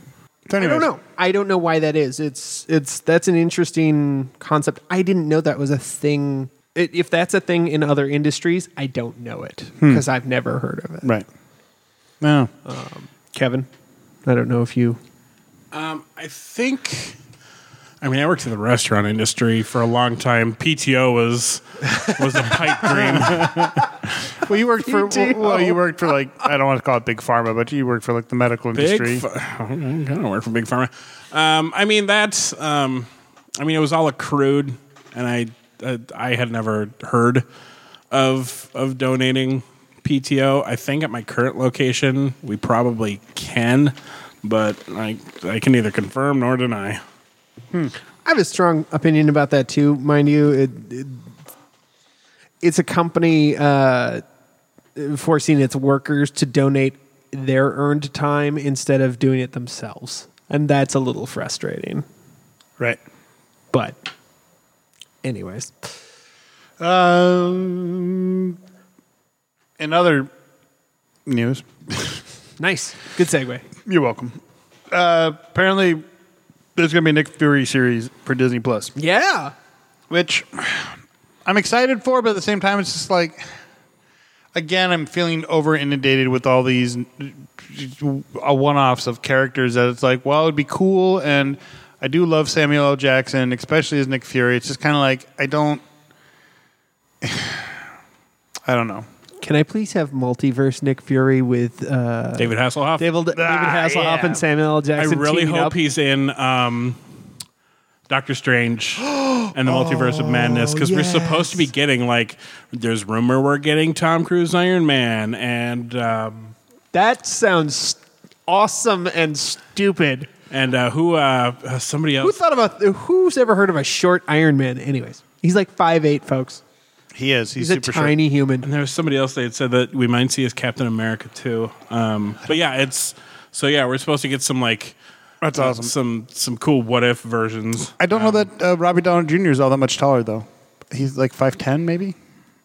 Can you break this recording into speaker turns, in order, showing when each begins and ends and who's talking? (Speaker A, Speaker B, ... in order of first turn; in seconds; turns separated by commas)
Speaker A: 0.5-0.9, Speaker B: 0.5-11.1, Speaker A: 9.8-10.0, Speaker A: 12.2-12.5, Speaker B: 12.6-13.7, Speaker B: 14.2-15.0, Speaker C: 15.7-17.2, Speaker C: 18.0-23.5, Speaker B: 22.0-23.7, Speaker A: 22.9-29.2, Speaker B: 24.8-25.8, Speaker C: 28.7-37.4, Speaker C: 38.1-47.0, Speaker B: 48.2-51.3, Speaker B: 52.6-54.2, Speaker B: 54.9-62.0, Speaker B: 65.2-66.0, Speaker A: 66.8-68.6, Speaker A: 69.8-70.3, Speaker A: 71.2-72.2, Speaker B: 72.6-73.7, Speaker A: 73.8-74.4, Speaker A: 74.9-76.0, Speaker A: 76.8-78.9, Speaker B: 78.9-79.5, Speaker A: 80.1-83.4, Speaker A: 84.5-95.8, Speaker A: 97.2-97.8, Speaker A: 98.7-99.1, Speaker B: 99.4-105.8, Speaker C: 102.4-103.0, Speaker A: 103.3-104.4, Speaker C: 105.0-107.0, Speaker C: 108.1-116.5, Speaker B: 109.0-111.7, Speaker B: 116.9-120.3, Speaker C: 120.5-122.4, Speaker B: 122.2-126.6, Speaker A: 127.1-128.1, Speaker B: 127.6-128.7, Speaker C: 128.6-134.9, Speaker A: 135.4-135.9, Speaker C: 135.5-138.3, Speaker A: 138.0-142.1